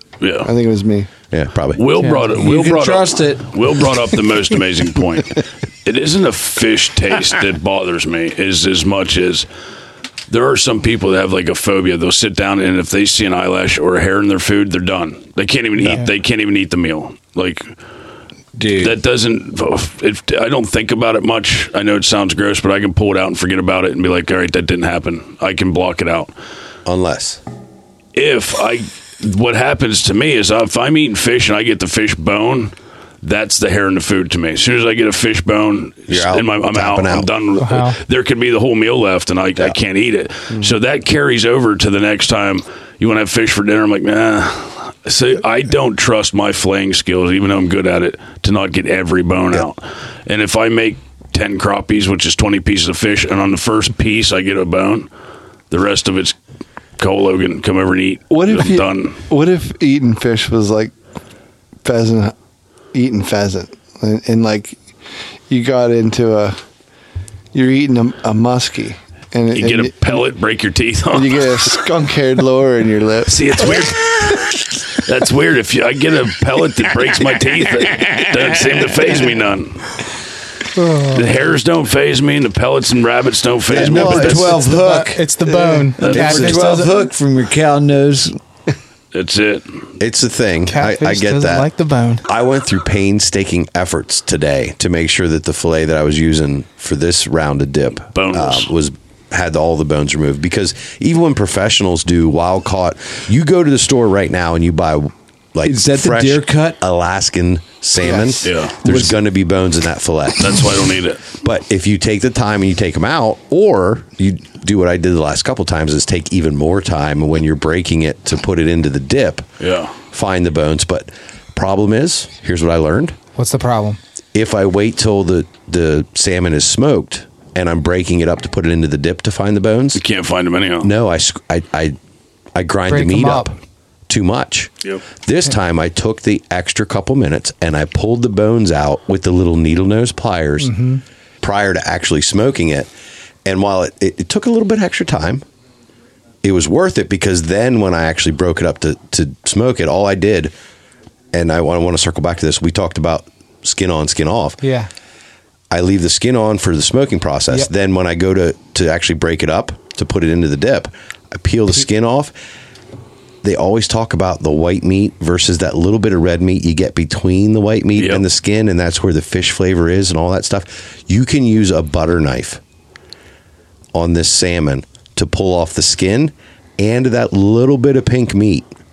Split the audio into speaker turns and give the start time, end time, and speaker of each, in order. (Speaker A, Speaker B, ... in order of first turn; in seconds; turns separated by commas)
Speaker A: 0.2-0.5, Speaker B: 0.4-1.1, Speaker C: 1.3-1.8, Speaker A: 1.7-9.5, Speaker D: 2.3-3.5, Speaker A: 10.3-17.7, Speaker D: 18.6-18.9, Speaker A: 18.8-26.3, Speaker C: 26.8-27.4, Speaker A: 28.1-55.1, Speaker C: 36.1-37.3, Speaker E: 37.6-38.0, Speaker A: 55.7-56.4, Speaker A: 57.0-59.2, Speaker B: 58.3-60.9, Speaker B: 61.8-62.3, Speaker B: 62.9-64.8, Speaker B: 65.5-66.6, Speaker B: 67.5-70.2, Speaker A: 69.5-71.7, Speaker B: 71.1-73.4, Speaker A: 73.2-80.0, Speaker E: 80.8-81.3, Speaker A: 81.1-84.6, Speaker C: 83.7-85.2, Speaker D: 83.8-85.1, Speaker E: 84.6-87.0, Speaker B: 85.5-85.8, Speaker D: 86.0-88.4, Speaker A: 86.0-86.3, Speaker C: 86.1-86.8, Speaker A: 89.1-89.8, Speaker C: 90.0-91.7, Speaker E: 90.7-92.2, Speaker C: 92.2-110.7, Speaker A: 98.1-98.7, Speaker D: 105.7-106.8, Speaker A: 108.4-108.8, Speaker D: 108.8-109.2, Speaker A: 110.4-111.2, Speaker C: 111.4-119.5, Speaker A: 119.6-120.0, Speaker C: 120.1-123.2, Speaker E: 123.3-124.0, Speaker C: 124.3-130.0, Speaker A: 129.9-130.9, Speaker C: 130.8-131.9, Speaker C: 132.5-133.5, Speaker E: 132.9-133.5, Speaker C: 134.1-140.8, Speaker E: 140.6-141.0, Speaker C: 141.4-142.9, Speaker C: 143.4-145.4, Speaker C: 146.4-150.5, Speaker C: 151.3-154.6, Speaker E: 154.6-154.9, Speaker C: 155.7-162.3, Speaker C: 163.4-172.6, Speaker A: 167.9-168.2, Speaker C: 173.9-178.7